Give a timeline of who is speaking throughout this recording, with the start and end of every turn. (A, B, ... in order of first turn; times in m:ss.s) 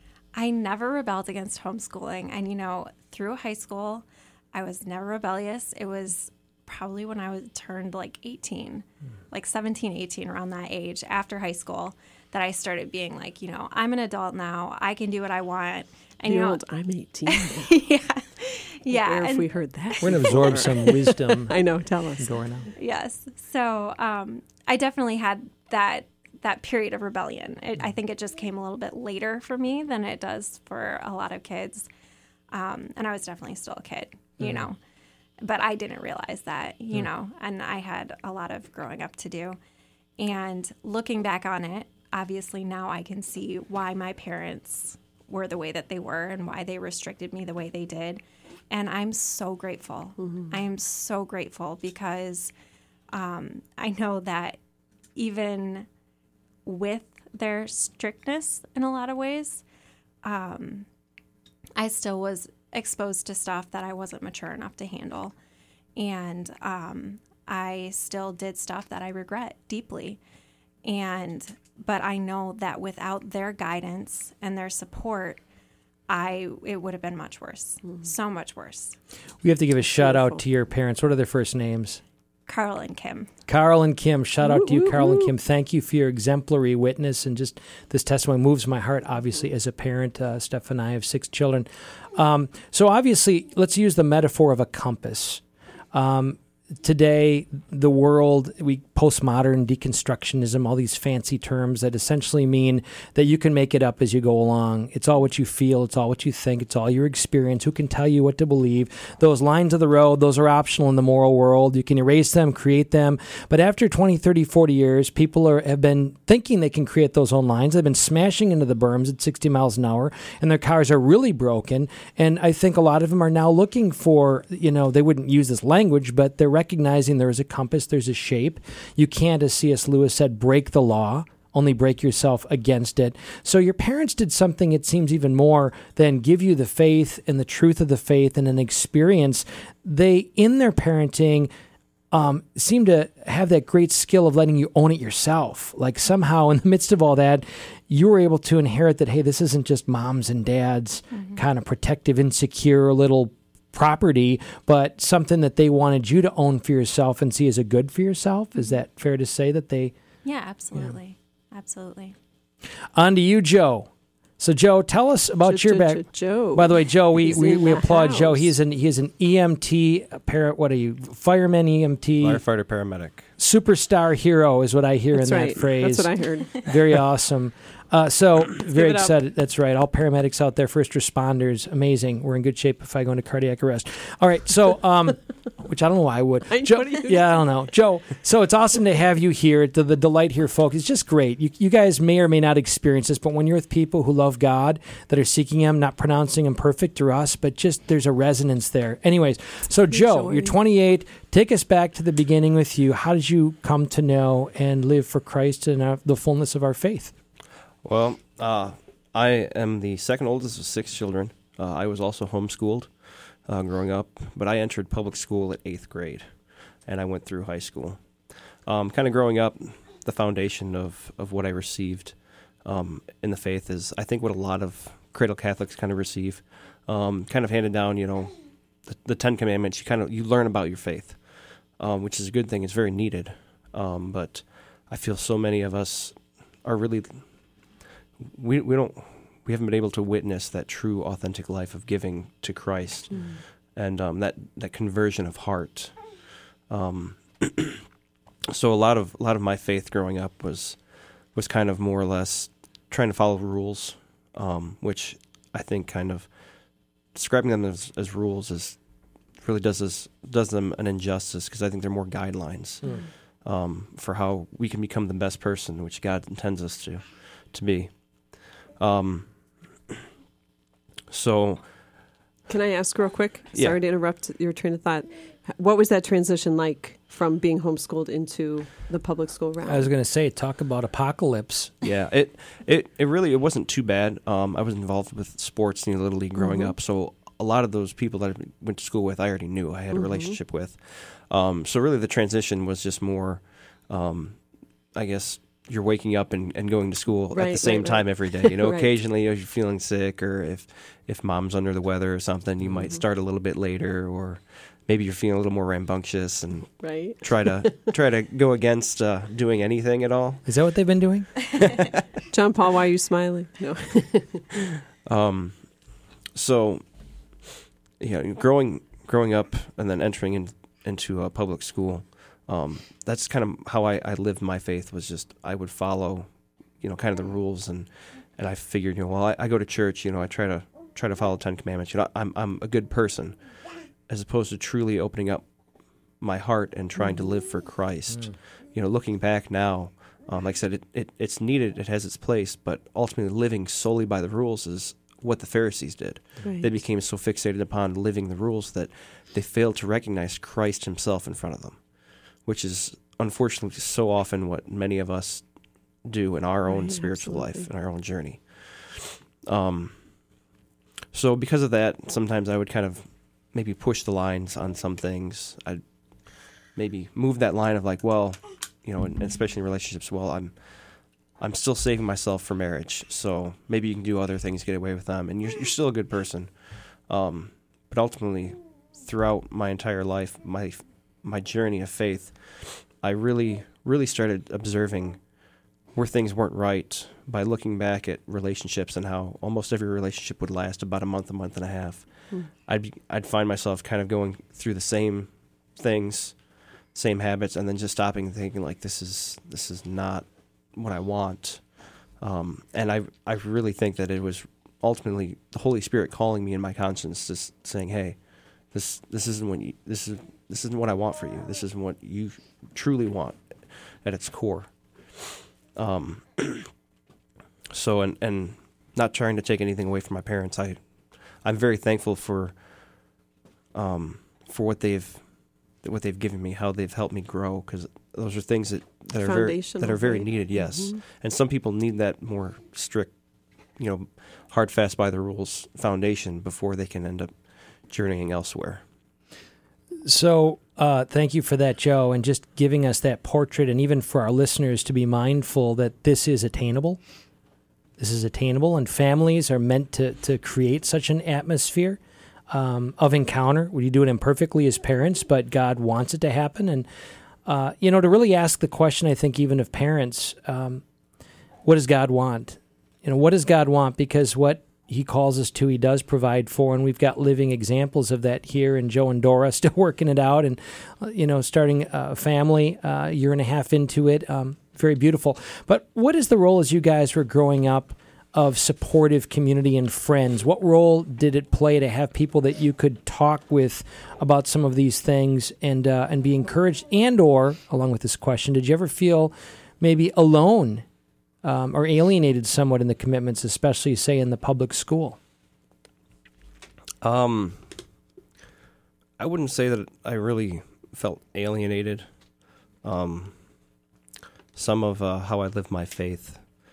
0:00.3-0:16.6 A
0:16.2-0:17.7 B
0:17.3-0:21.0 A
0:18.9-0:22.3 B
0:20.0-0:21.6 C
0:22.2-0:22.7 C
0:22.8-0:31.9 A
0:32.5-0:34.8 A
0:35.4-0:39.6 A
0:40.2-0:52.5 A
0:53.1-0:54.6 A
0:55.2-0:55.9 A
0:56.6-0:59.6 A
1:00.2-1:00.9 A
1:01.8-1:05.3 A
1:06.0-1:10.2 A
1:10.8-1:15.4 A
1:16.1-1:19.0 A
1:19.4-1:22.0 C
1:20.0-1:20.4 B
1:22.5-1:23.3 A
1:23.5-2:21.5 C
1:24.4-1:25.3 B
2:22.1-2:39.9 C
2:31.1-2:31.4 A
2:40.2-2:42.2 A
2:43.0-2:52.4 C
2:45.4-2:48.5 B
2:52.2-2:53.3 D
2:53.4-3:27.1 C
2:55.1-2:56.7 B
2:58.7-2:59.1 B
3:06.5-3:07.4 B
3:19.9-3:20.6 B
3:27.8-3:36.3 D
3:36.9-3:38.0 D
3:38.7-3:48.3 D
3:48.8-3:57.6 D
3:58.2-4:07.8 D
4:03.1-4:03.4 B
4:08.5-4:18.8 D
4:19.4-4:29.9 D
4:31.1-4:31.7 D
4:32.5-4:39.9 B
4:33.5-4:33.8 D
4:39.6-4:41.7 C
4:41.8-5:10.4 D
4:46.4-4:46.8 B
4:49.9-4:50.4 B
4:57.3-4:58.9 B
5:06.8-5:07.9 B
5:10.5-5:11.5 C
5:12.3-5:14.5 B
5:15.0-5:16.8 D
5:18.0-5:26.3 D
5:26.8-5:35.5 D
5:36.1-6:00.4 D
5:37.0-5:37.2 B
5:46.4-5:46.7 B
5:56.7-5:57.7 B
6:01.1-6:25.2 D
6:25.9-6:56.7 D
6:57.7-7:03.2 D
7:03.7-7:13.1 D
7:09.2-7:11.0 B
7:13.8-7:17.3 D
7:17.8-7:18.8 D
7:20.0-7:27.0 C
7:28.0-7:36.9 C
7:37.5-7:40.8 C
7:41.6-8:10.8 C
8:11.4-8:15.2 C
8:17.0-8:17.7 D
8:19.2-8:22.1 D
8:22.8-8:23.4 D
8:24.5-8:26.5 D